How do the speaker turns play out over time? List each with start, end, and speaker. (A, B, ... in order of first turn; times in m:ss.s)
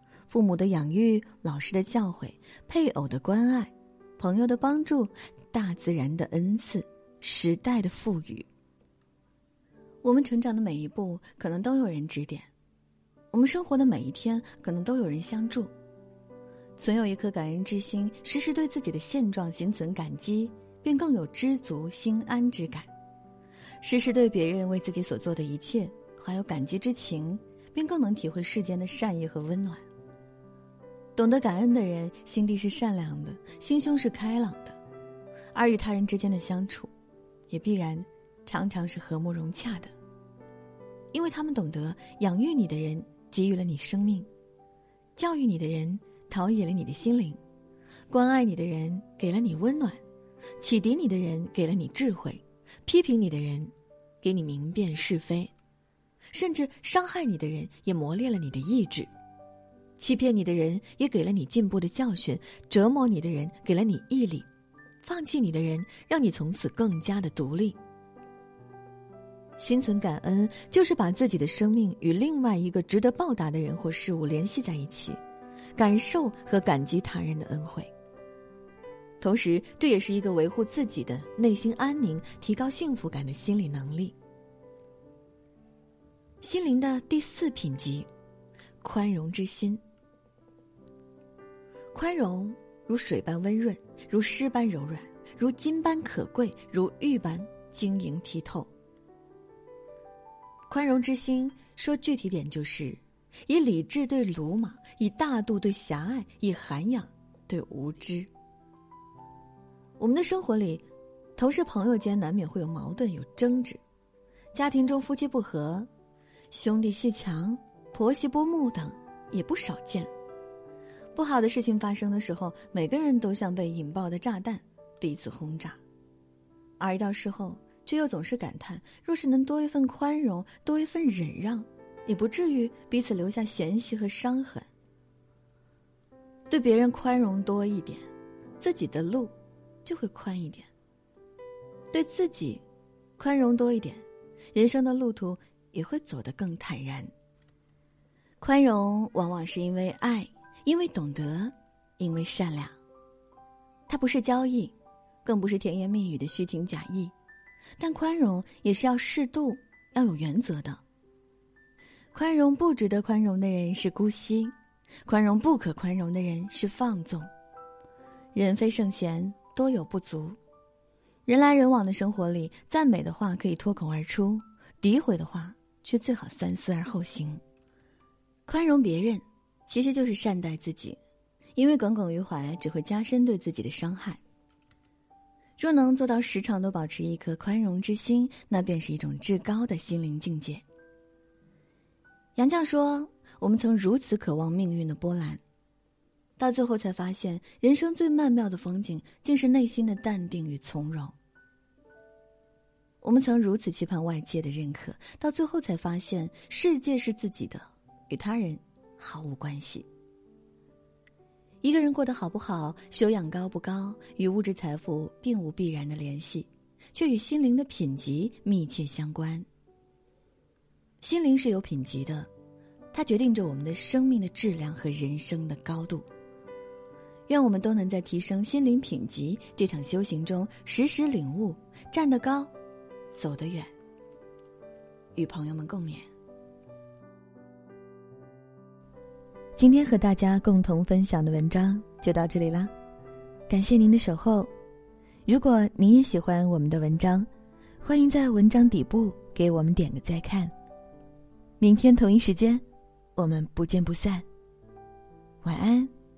0:00.3-0:08.5 A
0:10.0-0:12.5 A
0:13.3-0:15.7 A
0:16.8-0:22.9 A
0:23.8-0:29.8 A
0:31.2-0:34.8 A
0:35.5-0:36.9 A
0:37.5-0:39.9 A
0:41.1-0:44.3 A
0:45.2-0:47.4 A
0:48.1-0:50.0 A
0:50.6-0:55.5 A
0:56.3-0:59.1 A
1:00.0-1:04.5 A
1:05.0-1:07.8 A
1:09.6-1:15.2 A
1:15.8-1:17.9 A
1:19.2-1:24.2 A
1:26.4-1:28.1 A
1:28.8-1:29.8 A
1:31.9-1:38.7 A
1:40.7-1:48.3 A
1:50.0-1:50.8 A
1:51.4-1:53.8 A
1:54.5-1:55.9 A
1:56.5-2:00.1 A
2:01.2-2:05.8 A
2:06.8-2:14.7 A
2:16.5-2:18.1 A
2:18.6-2:19.3 A
2:19.8-2:20.7 A
2:21.9-2:22.6 A
2:23.2-2:27.1 A
2:28.4-2:32.7 A
2:33.9-2:34.7 A
2:35.2-2:37.1 A
2:37.8-2:40.8 A
2:42.1-2:44.5 A
2:45.1-2:47.3 A
2:48.4-2:50.4 A
2:51.3-2:57.4 A
2:58.5-3:01.0 A
3:01.6-3:04.2 A
3:05.6-3:10.6 A
3:12.4-3:15.4 A
3:16.4-3:21.2 A
3:23.0-3:29.9 A
3:31.6-3:39.5 A
3:41.0-3:42.3 A
3:42.9-3:46.0 A
3:47.3-3:52.5 A
3:53.1-3:53.7 A
3:55.2-3:56.1 A
3:59.6-4:02.7 A
4:03.5-4:04.5 A
4:05.3-4:07.3 A
4:07.8-4:10.5 A
4:11.6-4:12.6 A
4:13.2-4:14.3 A
4:15.4-4:15.9 A